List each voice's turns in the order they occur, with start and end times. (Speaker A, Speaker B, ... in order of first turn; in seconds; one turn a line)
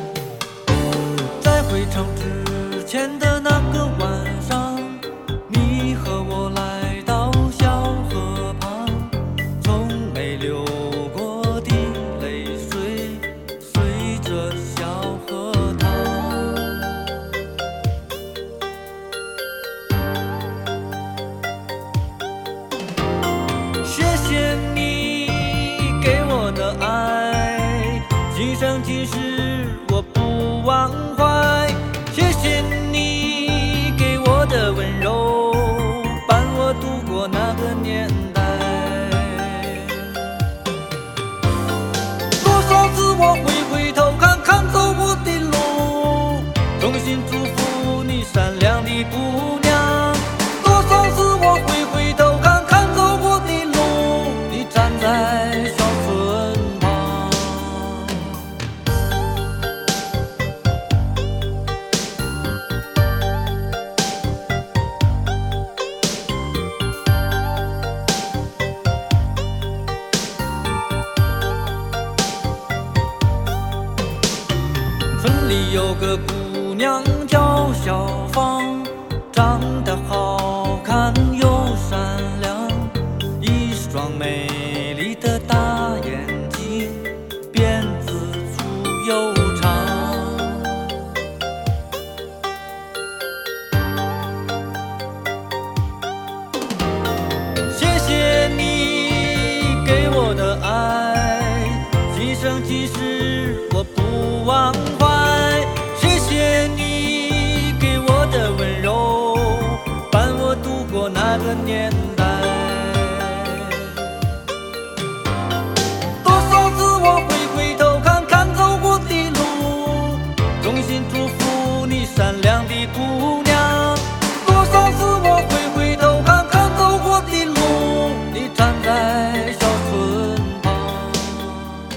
Speaker A: 1.2-17.0
Speaker A: 23.8-40.4
Speaker A: 42.3-58.4
Speaker A: 75.1-91.1
Speaker A: 97.7-114.2
Speaker A: 116.2-131.7